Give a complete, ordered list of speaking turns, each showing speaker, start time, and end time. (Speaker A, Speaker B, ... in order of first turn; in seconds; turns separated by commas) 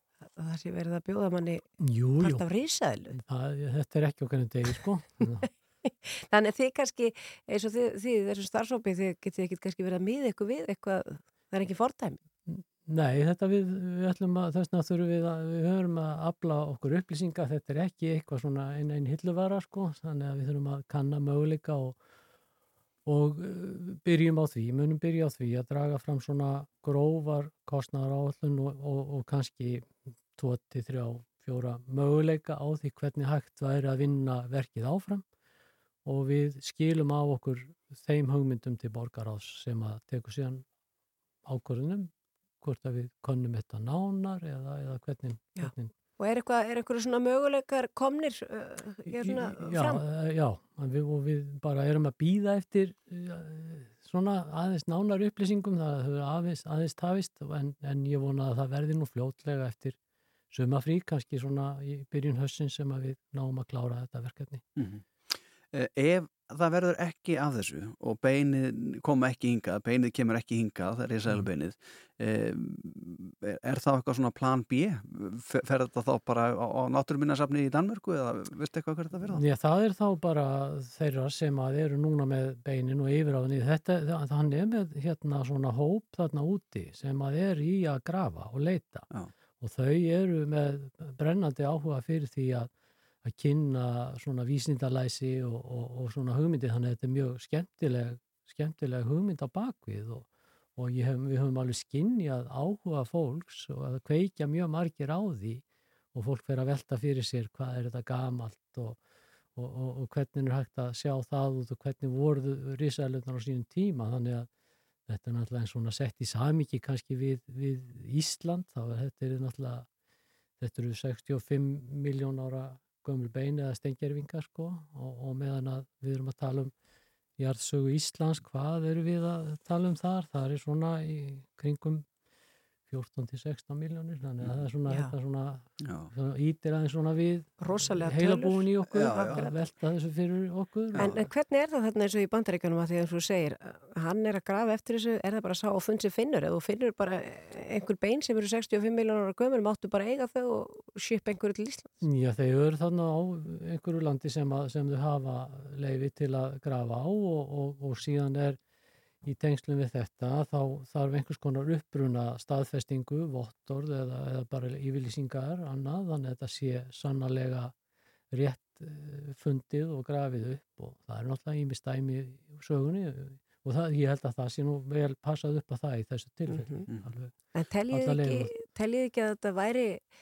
Speaker A: 0.3-1.7, Speaker B: 1.8-2.5, Speaker A: 2.2-3.2, Speaker B: 3.1-5.5, Speaker A: 5.9-12.2, Speaker B: 12.5-22.0, Speaker B: 23.1-35.2, Speaker B: 36.0-40.6, Speaker B: 41.5-45.9, Speaker A: 45.6-50.0, Speaker B: 49.2-60.0, Speaker B: 60.5-64.6, Speaker C: 64.8-79.4, Speaker B: 79.3-89.1, Speaker B: 89.6-92.7, Speaker B: 93.2-109.0, Speaker B: 109.5-114.5, Speaker B: 115.1-119.9, Speaker B: 120.6-126.7, Speaker B: 127.4-132.1, Speaker B: 132.9-141.2, Speaker C: 135.8-136.1, Speaker A: 137.6-139.5, Speaker C: 138.9-139.5, Speaker C: 140.9-141.2, Speaker A: 140.9-151.9, Speaker B: 152.0-158.6, Speaker B: 159.2-167.7, Speaker B: 168.3-177.3, Speaker A: 176.5-176.9, Speaker A: 177.5-180.0, Speaker B: 177.9-178.5